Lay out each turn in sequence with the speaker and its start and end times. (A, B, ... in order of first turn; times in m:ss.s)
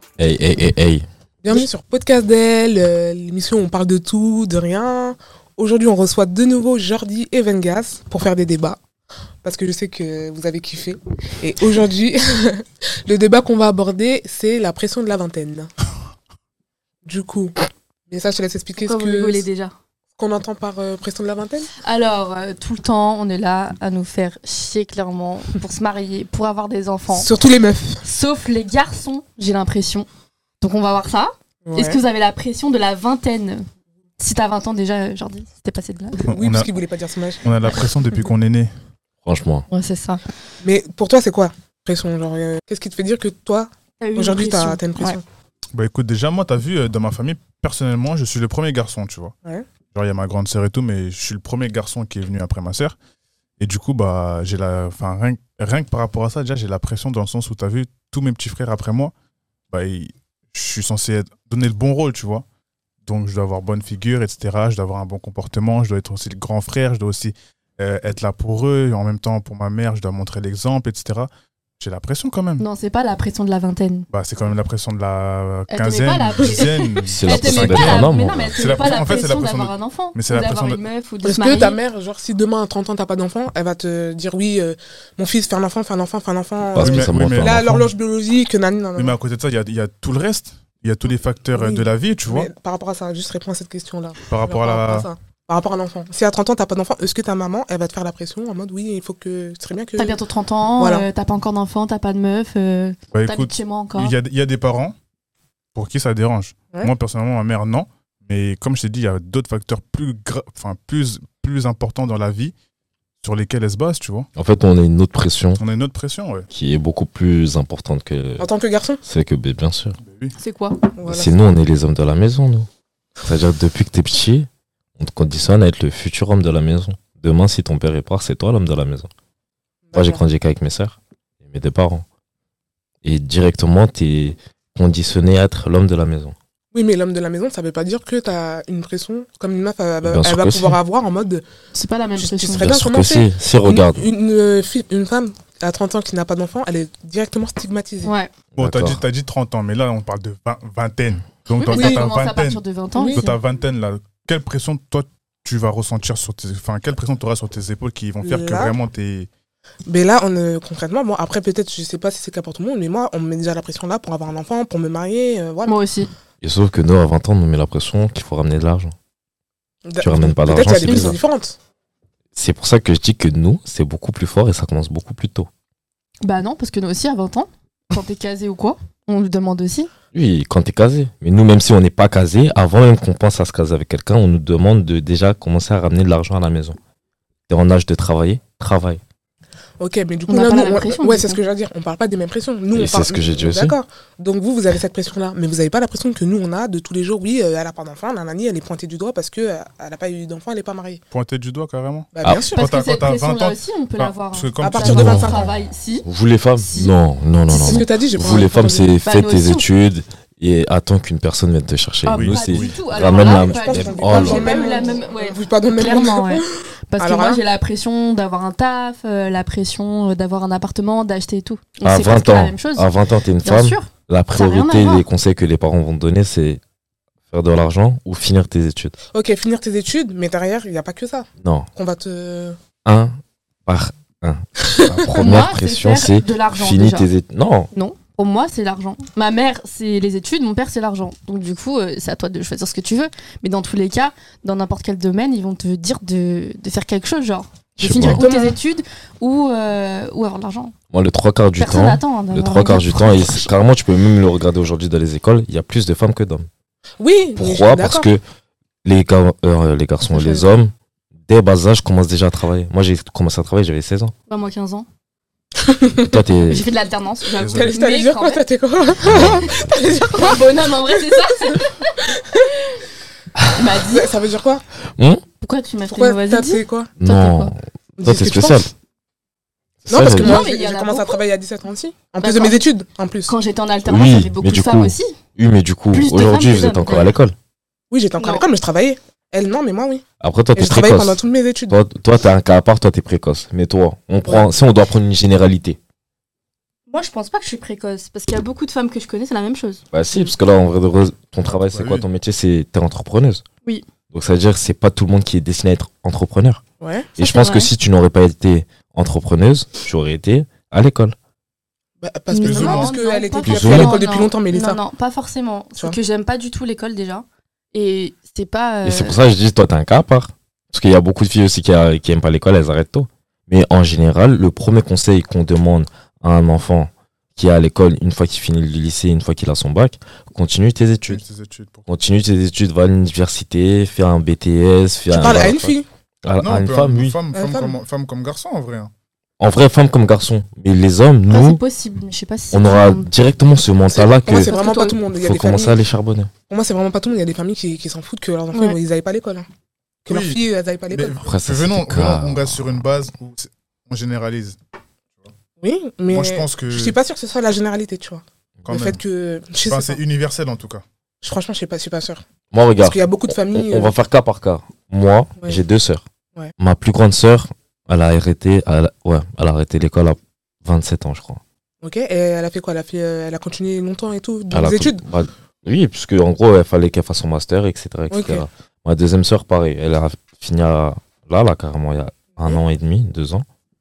0:00.2-0:01.6 A
0:01.4-0:08.8 B
0:09.4-0:15.7 B
0:17.0-0:17.6 B
0:18.1-0:19.4 B
0:18.8-0:19.8 C
0:20.2-0:21.7 B
0:21.8-0:27.3 C
0:27.1-0:28.0 B
0:28.0-0:30.1 C
0:30.6-0:33.7 C
0:31.6-0:32.0 B
0:34.2-0:36.3 C
0:36.3-0:36.7 D
0:36.3-0:37.5 B
0:37.4-0:38.7 D
0:39.2-0:39.7 A
0:39.7-0:40.2 C
0:40.6-0:45.2 B
0:44.0-0:45.2 C
0:45.7-0:49.4 D
0:49.9-0:53.0 D
0:53.6-0:59.1 D
0:59.7-1:02.4 D
1:03.1-1:12.6 D
1:12.6-1:14.1 C
1:14.1-1:20.8 D
1:15.7-1:21.8 C
1:17.1-1:19.0 A
1:21.2-1:29.2 B
1:26.7-1:27.7 A
1:26.8-1:27.9 D
1:29.0-1:32.5 D
1:31.6-1:40.2 B
1:34.3-1:35.1 D
1:40.0-1:44.1 C
1:40.8-1:41.1 B
1:43.1-1:45.0 D
1:45.7-1:52.5 D
1:53.2-1:54.3 D
1:54.4-1:55.6 A
1:55.6-1:56.5 D
1:56.5-1:58.5 A
1:58.4-1:59.0 B
1:59.0-2:00.0 A
2:00.0-2:00.3 D
2:00.4-2:00.8 C
2:01.0-2:01.5 B
2:01.1-2:02.7 A
2:03.2-2:09.1 A
2:09.9-2:10.2 B
2:10.0-2:12.0 A
2:13.0-2:16.4 A
2:16.7-2:21.4 B
2:20.0-2:20.8 A
2:21.7-2:22.7 C
2:22.2-2:28.1 B
2:22.6-2:24.0 A
2:28.0-2:28.3 C
2:28.6-2:29.0 A
2:28.6-2:39.3 D
2:31.6-2:33.3 C
2:31.7-2:32.0 B
2:33.0-2:33.3 B
2:38.2-2:38.8 B
2:39.8-2:45.8 B
2:45.7-2:46.1 C
2:46.4-2:48.9 A
2:49.9-2:51.6 B
2:50.0-2:51.2 A
2:50.8-2:51.2 C
2:52.4-2:55.5 A
2:56.2-2:59.9 C
3:00.1-3:06.8 A
3:07.5-3:09.0 A
3:09.8-3:21.0 B
3:10.3-3:11.4 C
3:12.7-3:13.8 A
3:21.1-3:25.3 D
3:22.1-3:22.6 B
3:22.5-3:26.1 C
3:24.6-3:25.5 B
3:24.8-3:25.3 A
3:26.0-3:34.8 A
3:26.6-3:26.9 C
3:27.5-3:28.9 B
3:27.5-3:27.8 C
3:29.0-3:29.7 C
3:32.1-3:42.9 C
3:32.1-3:32.8 D
3:33.0-3:37.4 B
3:41.8-3:46.6 A
3:43.4-3:45.1 C
3:47.3-3:49.0 A
3:49.1-3:52.6 B
3:51.4-3:51.7 A
3:52.8-3:57.7 A
3:54.7-3:55.3 B
3:55.2-3:57.1 C
3:57.7-4:10.7 C
4:07.8-4:08.2 A
4:07.9-4:08.6 B
4:10.9-4:16.5 A
4:11.6-4:13.5 C
4:17.0-4:18.1 B
4:17.4-4:18.2 A
4:18.8-4:20.7 A
4:20.1-4:20.4 B
4:21.3-4:24.1 A
4:24.3-4:24.9 C
4:25.6-4:26.2 B
4:26.0-4:26.7 A
4:26.5-4:28.4 C
4:27.4-4:27.8 D
4:27.4-4:30.7 B
4:29.0-4:29.8 A
4:30.1-4:32.0 C
4:31.5-4:32.5 B
4:33.5-4:34.1 C
4:33.8-4:34.6 B
4:35.0-4:35.2 A
4:35.4-4:37.5 C
4:35.9-4:36.9 B
4:37.0-4:38.7 A
4:38.0-4:38.7 B
4:39.9-4:40.4 A
4:39.9-4:43.3 B
4:40.1-4:41.2 C
4:42.2-4:42.6 C
4:43.3-4:45.2 C
4:43.9-4:47.4 A
4:45.9-4:47.2 C
4:47.9-4:50.0 B
4:48.2-4:48.4 C
4:50.2-4:55.8 A
4:50.6-4:51.8 B
4:56.9-5:00.3 C
4:59.9-5:03.4 A
5:01.6-5:02.1 D
5:04.1-5:06.6 A
5:06.8-5:07.1 B
5:07.2-5:11.2 A
5:07.2-5:07.7 C
5:12.0-5:14.8 B
5:12.3-5:19.2 C
5:12.4-5:13.0 D
5:13.5-5:14.0 A
5:18.8-5:31.2 A
5:31.1-5:31.9 D
5:31.9-5:37.2 A
5:35.1-5:35.9 B
5:36.4-5:38.9 D
5:37.3-5:37.8 B
5:39.4-5:41.6 A
5:41.3-5:43.1 C
5:42.5-5:44.6 A
5:43.9-5:45.8 B
5:44.3-5:45.0 C
5:45.1-5:46.3 A
5:46.5-5:49.5 B
5:48.5-5:48.8 C
5:50.0-5:51.2 B
5:50.1-5:54.6 D
5:51.2-5:52.8 A
5:55.6-6:00.0 B
5:56.1-5:57.0 D
5:58.7-5:59.0 D
5:59.6-6:00.8 D
6:01.2-6:02.2 B
6:02.5-6:06.0 A
6:02.8-6:03.9 B
6:06.6-6:11.4 A
6:11.8-6:15.0 B
6:14.5-6:23.4 A
6:18.1-6:18.4 B